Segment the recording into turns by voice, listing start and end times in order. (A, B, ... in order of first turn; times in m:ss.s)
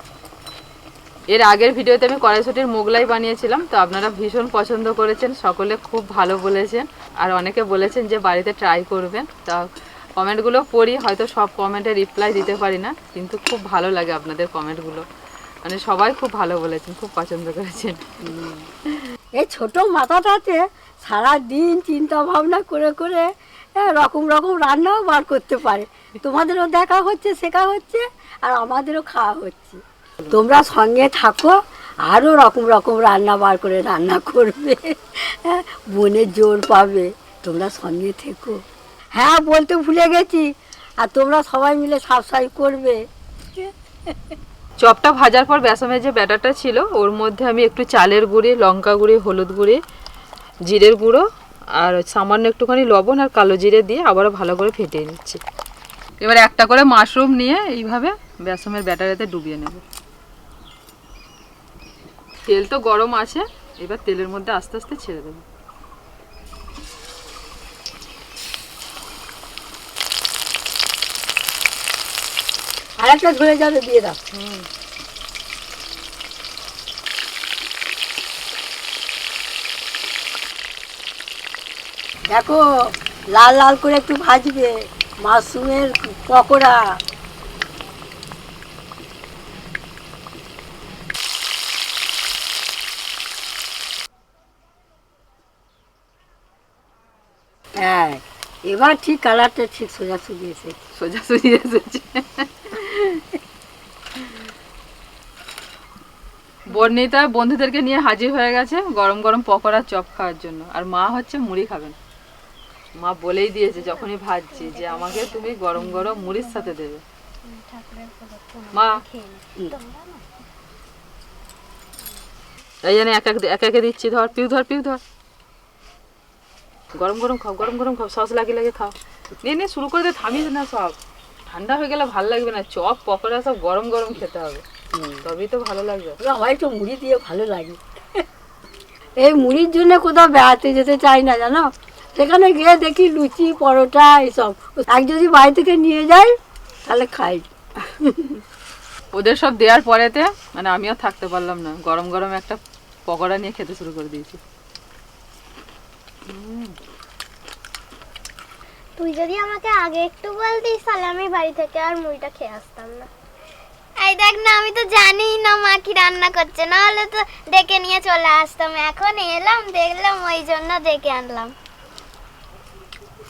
0:01.3-0:15.0 A
0:15.6-0:18.1 A
0:18.2-0:18.7 B
0:19.3-0:38.6 B
0:39.1-0:40.4 B
0:41.0-0:43.0 B
0:43.6-0:44.3 B
0:44.8-0:49.8 A
0:50.6-0:51.2 A
0:51.8-0:55.4 A
0:56.2-0:59.8 A
1:02.4-1:05.4 A
1:13.0-1:14.2 B
1:14.3-1:14.7 A
1:22.3-1:22.6 B
1:23.3-1:26.9 B
1:37.8-1:40.8 B
1:41.0-1:43.3 A
1:44.2-1:44.5 A
1:46.7-1:52.0 A
1:53.0-1:57.0 A
1:54.7-1:56.4 C
1:57.4-2:00.3 C
1:58.7-1:59.0 A
2:02.8-2:05.0 A
2:07.0-2:11.0 A
2:11.5-2:14.6 A
2:14.9-2:15.2 B
2:15.2-2:16.2 A
2:16.2-2:18.2 B
2:19.2-2:26.3 B
2:26.8-2:28.4 B
2:29.1-2:34.4 A
2:36.3-2:36.8 A
2:39.0-2:43.1 C
2:44.0-2:51.5 C